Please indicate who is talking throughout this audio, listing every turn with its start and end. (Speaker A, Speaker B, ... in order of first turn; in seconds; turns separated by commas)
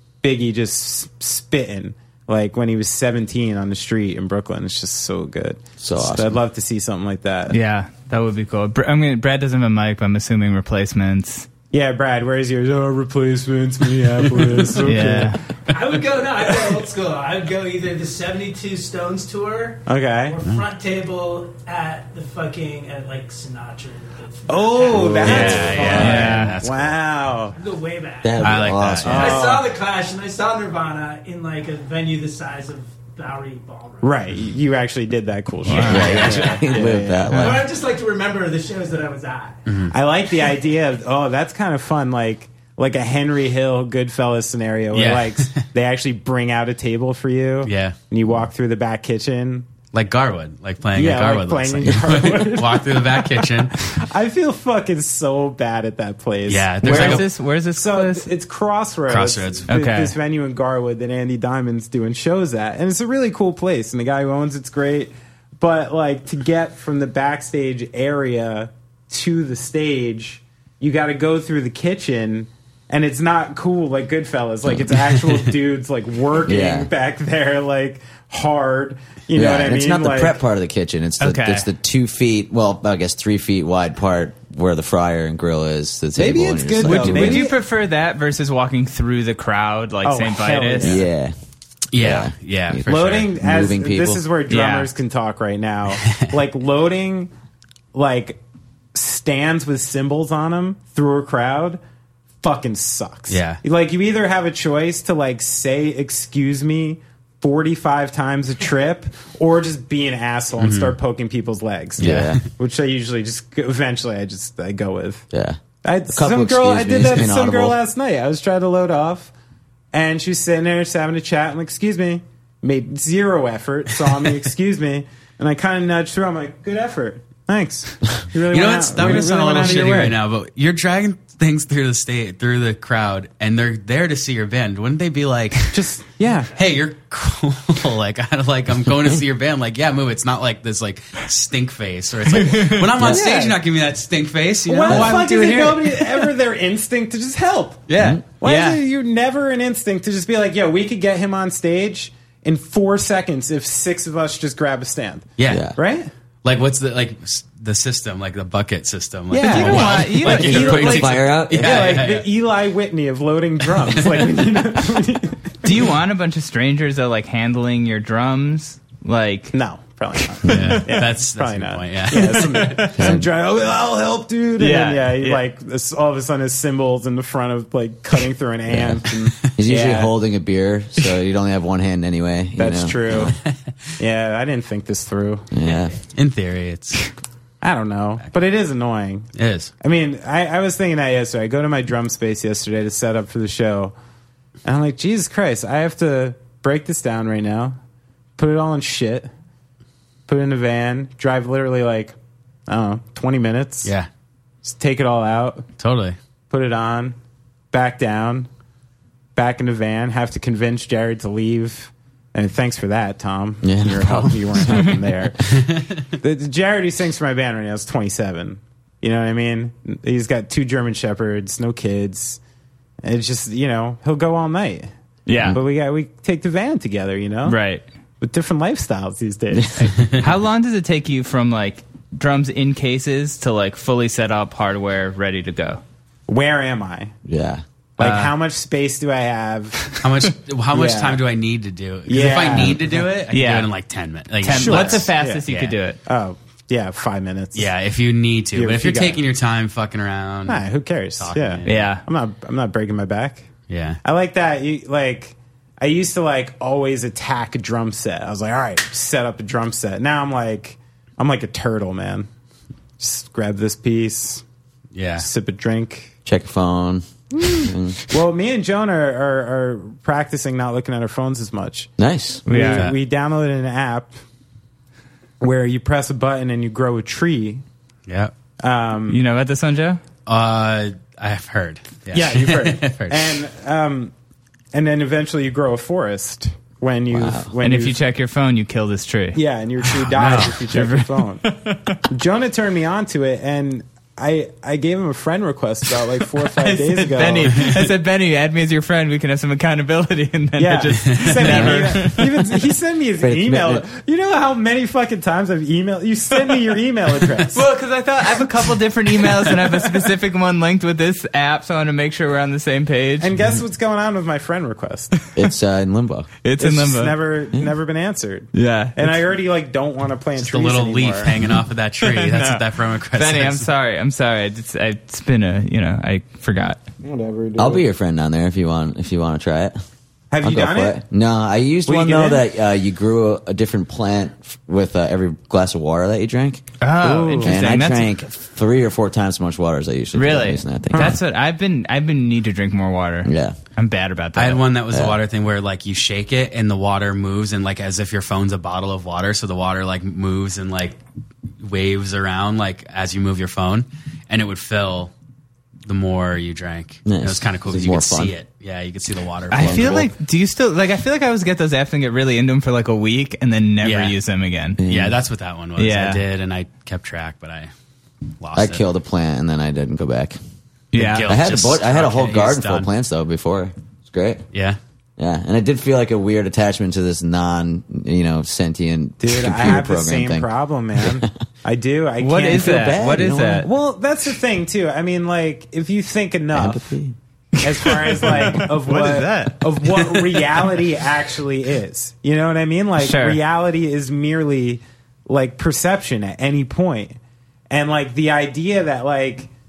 Speaker A: 0.2-7.6, Speaker B: 5.8-6.4, Speaker C: 7.5-11.5, Speaker A: 11.7-15.4, Speaker C: 14.8-15.4, Speaker D: 15.7-25.3, Speaker A: 19.9-20.4, Speaker A: 24.5-27.6, Speaker B: 24.9-26.0, Speaker E: 25.2-27.0, Speaker C: 25.2-26.6, Speaker D: 25.9-26.2, Speaker D: 27.5-34.2, Speaker B: 28.2-29.4, Speaker E: 28.4-29.4, Speaker A: 29.0-29.7, Speaker A: 34.0-37.6, Speaker C: 35.6-36.3, Speaker B: 35.7-37.7, Speaker D: 35.9-39.6, Speaker E: 39.7-39.9, Speaker A: 39.9-49.7, Speaker E: 44.9-45.6, Speaker E: 47.6-48.0, Speaker E: 49.9-53.9, Speaker A: 50.9-80.3, Speaker E: 56.5-57.2, Speaker C: 56.8-58.3, Speaker E: 59.1-59.7, Speaker C: 59.7-60.1, Speaker B: 76.5-76.9, Speaker B: 79.3-87.5, Speaker C: 81.2-81.7, Speaker A: 86.2-87.6, Speaker C: 86.8-91.0, Speaker A: 90.0-91.0, Speaker B: 90.8-91.3, Speaker E: 91.9-93.3, Speaker B: 92.0-94.2, Speaker A: 92.9-97.3, Speaker C: 94.5-94.9, Speaker A: 97.9-98.4, Speaker A: 98.9-101.8, Speaker A: 102.4-115.3, Speaker E: 103.3-103.6, Speaker E: 110.6-111.0, Speaker B: 112.0-112.4, Speaker E: 112.0-112.4, Speaker B: 115.3-117.8, Speaker A: 115.8-119.3, Speaker A: 119.9-130.2, Speaker E: 128.5-135.8, Speaker A: 135.7-136.5, Speaker E: 136.6-146.3, Speaker C: 142.3-142.9, Speaker A: 143.0-143.6, Speaker A: 144.7-147.8, Speaker B: 144.9-145.2, Speaker E: 147.9-148.2, Speaker B: 148.0-148.2, Speaker A: 148.4-156.1, Speaker C: 148.4-148.8, Speaker E: 155.4-155.7, Speaker B: 155.5-155.8, Speaker E: 156.4-162.3, Speaker C: 159.3-161.2, Speaker A: 159.3-165.9, Speaker B: 160.2-162.0, Speaker E: 163.9-164.4, Speaker C: 165.6-169.5, Speaker A: 169.5-180.1, Speaker C: 170.4-170.8, Speaker E: 170.5-172.8, Speaker C: 172.1-173.0, Speaker B: 172.9-173.3, Speaker C: 174.6-175.4, Speaker B: 178.7-183.3, Speaker A: 182.6-183.4, Speaker A: 184.0-185.5, Speaker B: 185.5-186.0, Speaker E: 186.1-187.1, Speaker A: 187.6-189.3, Speaker E: 189.3-189.7, Speaker A: 189.8-193.9, Speaker A: 194.6-197.8, Speaker A: 198.4-199.3, Speaker A: 200.3-202.2, Speaker A: 202.7-203.9, Speaker A: 204.6-205.7, Speaker E: 205.8-206.2, Speaker A: 206.5-207.2, Speaker A: 207.7-208.5, Speaker A: 209.3-222.4, Speaker B: 213.6-215.0, Speaker E: 215.5-215.8, Speaker A: 223.0-224.9, Speaker C: 225.2-225.6, Speaker A: 225.4-227.6, Speaker C: 227.4-227.8, Speaker A: 228.2-230.2, Speaker B: 229.5-229.9, Speaker C: 230.2-235.8, Speaker A: 236.3-237.1, Speaker B: 237.2-237.6, Speaker A: 238.0-239.9, Speaker C: 238.0-238.3, Speaker E: 240.0-245.7, Speaker A: 240.7-241.2, Speaker A: 242.1-243.0, Speaker C: 243.3-243.7, Speaker C: 244.4-246.0, Speaker A: 244.5-245.4, Speaker A: 246.1-247.7, Speaker E: 247.5-250.6, Speaker A: 248.5-249.2, Speaker A: 250.5-253.5, Speaker E: 251.2-251.9, Speaker C: 251.6-252.0, Speaker E: 253.7-254.0, Speaker A: 254.0-262.3, Speaker A: 263.0-264.4, Speaker E: 264.9-265.3, Speaker A: 265.2-266.1, Speaker B: 266.2-268.0, Speaker A: 267.3-271.9, Speaker B: 272.0-272.4, Speaker C: 272.5-272.9, Speaker A: 272.5-274.1, Speaker A: 275.4-277.6, Speaker E: 278.1-278.3, Speaker A: 278.6-279.2, Speaker C: 279.1-280.0, Speaker E: 280.2-283.4, Speaker A: 282.1-284.1, Speaker A: 284.7-288.0, Speaker B: 287.1-287.5, Speaker C: 287.6-289.4, Speaker A: 289.3-291.6, Speaker C: 290.0-292.0, Speaker E: 290.2-290.5, Speaker A: 292.1-297.8, Speaker C: 296.6-302.6, Speaker A: 300.6-307.7, Speaker B: 301.4-302.1, Speaker B: 303.2-303.9, Speaker C: 307.5-313.3, Speaker A: 313.2-315.1, Speaker B: 315.4-316.3, Speaker C: 316.4-317.2, Speaker A: 316.6-321.3, Speaker C: 318.5-319.2, Speaker E: 320.4-323.7, Speaker C: 322.0-322.6, Speaker C: 323.1-326.8, Speaker A: 327.0-327.8, Speaker B: 327.6-329.8, Speaker A: 330.3-331.0, Speaker B: 330.4-336.7, Speaker A: 331.9-332.4, Speaker C: 336.8-338.1, Speaker A: 337.0-337.6, Speaker B: 337.4-341.2, Speaker C: 340.1-344.6, Speaker B: 343.2-343.6, Speaker E: 344.4-351.0, Speaker B: 344.9-345.2, Speaker E: 351.6-355.1, Speaker E: 355.9-360.1, Speaker B: 357.1-358.3, Speaker C: 359.5-364.8, Speaker B: 359.5-360.1, Speaker E: 363.8-364.1, Speaker B: 364.8-365.1, Speaker E: 364.8-367.7, Speaker C: 365.8-366.2, Speaker E: 368.4-368.8, Speaker B: 368.6-370.4, Speaker C: 370.9-371.3, Speaker E: 370.9-372.9, Speaker B: 371.2-374.4, Speaker E: 374.5-374.8, Speaker B: 375.2-381.3, Speaker A: 379.2-383.0, Speaker C: 382.2-383.7, Speaker B: 382.5-383.7, Speaker A: 383.6-386.9, Speaker B: 386.5-387.1, Speaker A: 387.6-397.2, Speaker C: 387.8-389.6, Speaker C: 393.0-393.4, Speaker A: 397.7-399.5